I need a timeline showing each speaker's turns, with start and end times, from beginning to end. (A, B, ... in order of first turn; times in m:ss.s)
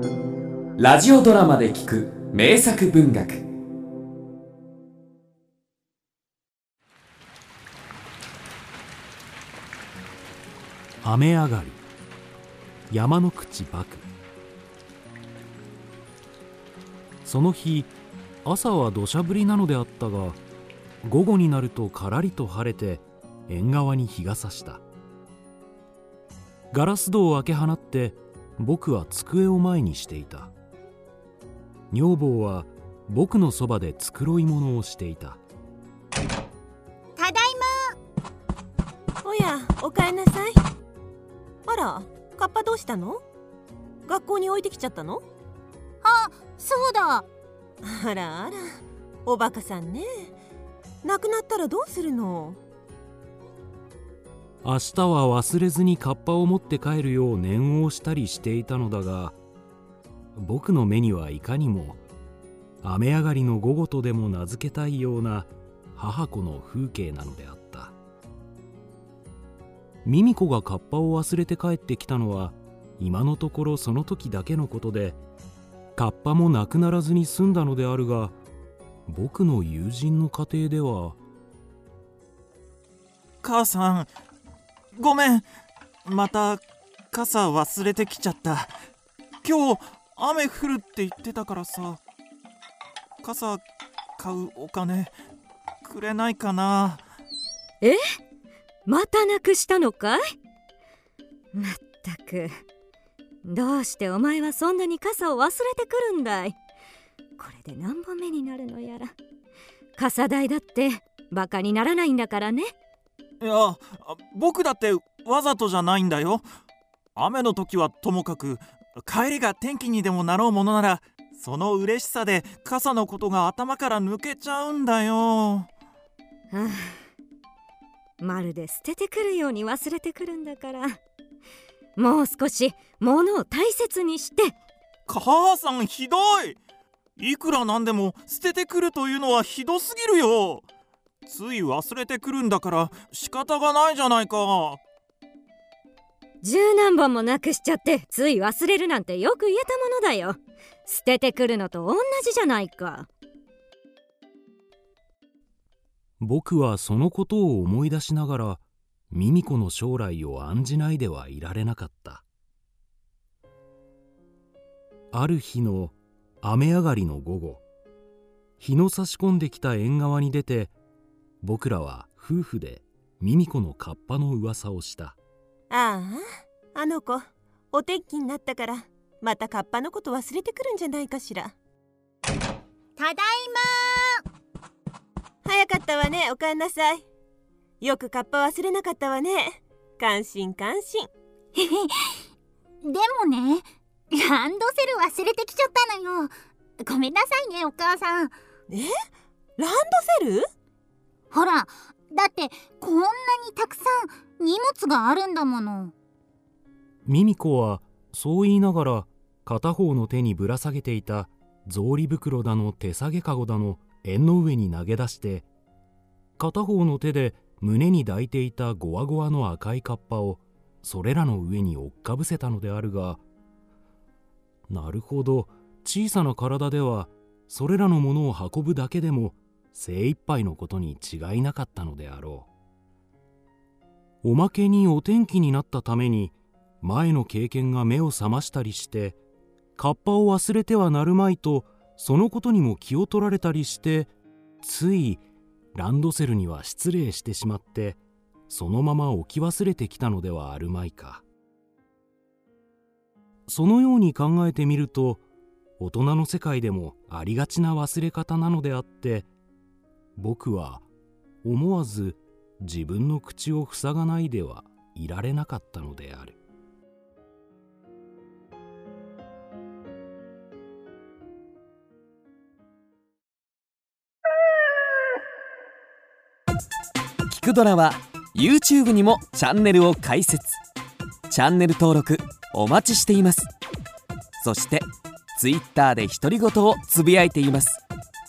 0:00.8-0:03.4 A
0:11.0-0:11.8 B
0:12.9-0:14.1 B
0:17.2-0:17.9 B
0:18.4-0:20.4 B
0:21.0-0:24.8 B
0:26.7-0:30.5 B
0:31.9-0:35.4 B
0:37.2-0:38.0 C
0:39.2-0:40.6 D
0:41.7-0:43.2 D
0:44.1-0:45.2 D
0:46.0-0:47.2 C
0:47.8-0:48.6 D
0:49.3-0:50.3 D
0:51.0-0:52.6 D
0:54.6-0:59.4 B
1:00.4-1:02.0 B
1:02.8-1:07.9 B
1:10.0-1:15.2 B
1:16.0-1:18.4 B
1:19.1-1:21.2 B
1:23.4-1:24.1 E
1:25.0-1:25.4 E
1:26.1-1:26.6 E
1:27.1-1:28.7 E
1:29.4-1:32.0 E
1:33.2-1:33.6 E
1:34.2-1:35.1 E
1:35.8-1:37.0 E
1:38.9-1:40.2 F
1:41.5-1:42.5 F
1:43.4-1:46.6 F
1:47.4-1:49.1 F
1:50.0-1:52.7 F
1:53.4-1:56.4 E
1:57.2-2:05.7 E
2:06.5-2:07.0 F
2:08.2-2:11.0 F
2:12.0-2:14.5 F
2:15.1-2:16.6 E
2:17.2-2:20.6 E
2:21.2-2:24.8 E
2:26.4-2:33.1 F
2:36.2-2:42.2 B
2:45.1-2:47.6 B
2:48.6-2:50.7 B
2:51.4-2:55.2 B
2:55.7-2:56.2 D
2:56.7-3:01.5 D
3:03.0-3:04.2 C
3:05.4-3:07.0 D
3:07.8-3:11.1 D
3:11.5-3:12.2 C
3:12.8-3:16.3 C
3:16.8-3:18.3 C
3:19.6-3:20.4 D
3:21.3-3:25.9 C
3:27.0-3:35.5 B
3:36.4-3:43.2 B
3:44.7-3:52.5 B
3:54.2-3:59.2 B
3:59.8-4:05.2 B
4:05.7-4:11.2 B
4:13.5-4:15.2 B
4:15.8-4:19.3 B
4:20.2-4:20.9 B
4:21.4-4:26.4 B
4:37.3-4:40.6 A
4:41.3-4:43.5 A
4:44.4-4:47.8 A